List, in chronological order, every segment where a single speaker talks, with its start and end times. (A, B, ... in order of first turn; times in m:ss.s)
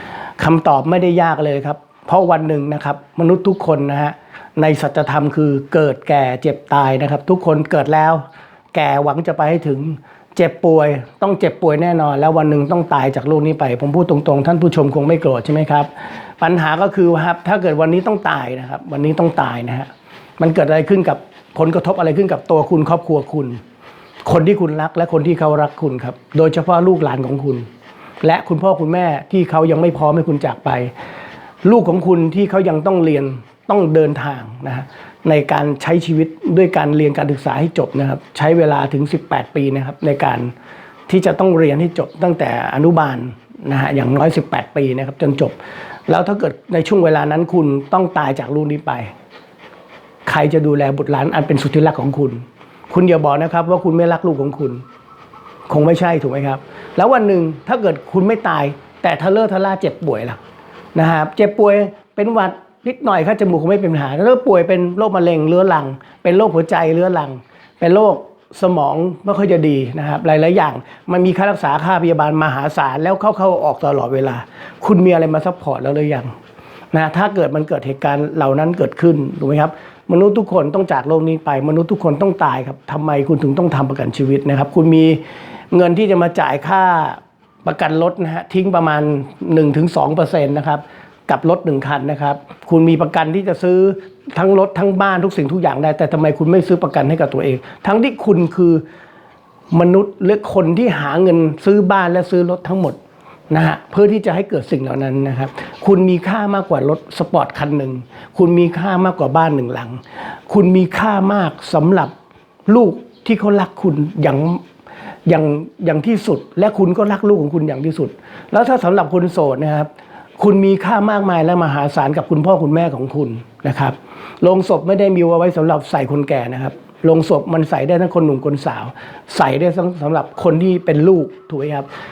0:00.4-0:23.6 A
0:24.2-0:27.7 A
0:28.2-0:30.9 A
0:31.6-0:40.5 A
0:41.1-0:49.1 A
0:50.3-0:54.8 A
0:55.7-1:00.4 A
1:01.0-1:16.3 A
1:16.9-1:38.8 A
1:39.7-1:43.0 A
1:43.5-1:52.1 A
1:52.7-1:54.6 A
1:55.3-2:11.9 A